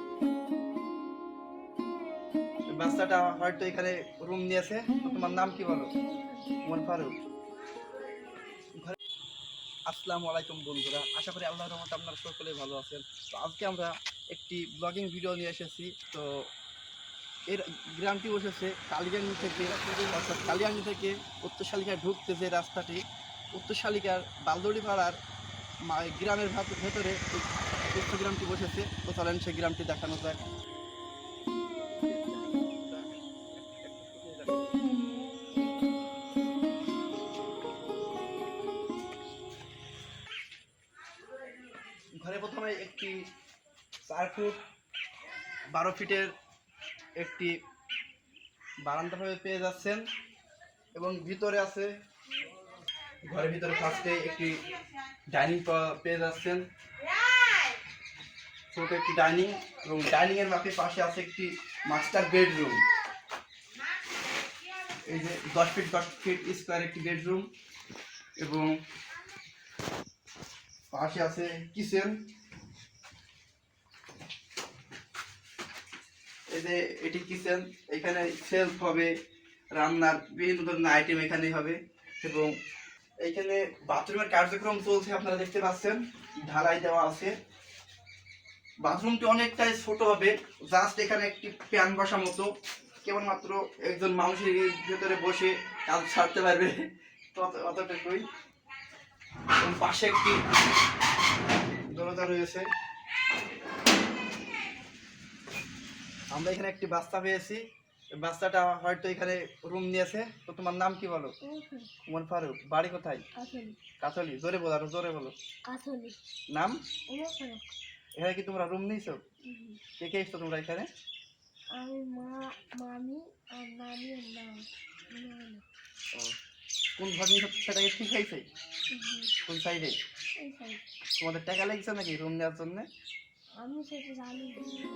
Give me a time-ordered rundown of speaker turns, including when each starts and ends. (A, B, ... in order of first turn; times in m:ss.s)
0:02.8-0:05.9 A
0:06.6-0:07.2 A
0:09.9-0:16.3 A
0:17.5-0:25.2 A
0:25.9-0:30.4 A
0:31.9-0:34.7 A
0:42.2-0:43.2 A
0:44.1-0:44.6 A
0:45.7-0:46.3 A
0:47.2-0:47.6 A
0:48.8-0:50.0 A
0:50.9-0:51.9 A
0:53.3-0:54.6 A
0:55.3-0:56.6 A
0:58.7-1:02.8 A
1:05.1-1:07.5 A
1:08.4-1:08.7 A
1:10.9-1:12.2 A
1:16.5-1:19.1 A
1:19.7-1:22.5 A
1:23.2-1:27.4 A
1:28.8-1:38.3 A
1:39.6-1:40.4 A
1:41.9-1:42.7 A
1:46.3-1:47.6 A
1:48.2-1:51.4 A
1:51.4-1:51.9 B
1:52.1-1:53.2 A
1:53.4-1:53.8 B
1:54.0-1:55.4 A
1:55.7-1:56.2 B
1:56.5-1:56.8 A
1:57.1-1:57.7 B
1:58.2-1:59.2 A
1:59.5-1:59.8 B
2:00.0-2:00.9 A
2:01.8-2:05.6 B
2:07.0-2:08.4 A
2:08.9-2:09.3 B
2:09.5-2:10.0 A
2:10.4-2:10.8 B
2:11.2-2:12.9 A
2:13.6-2:14.7 B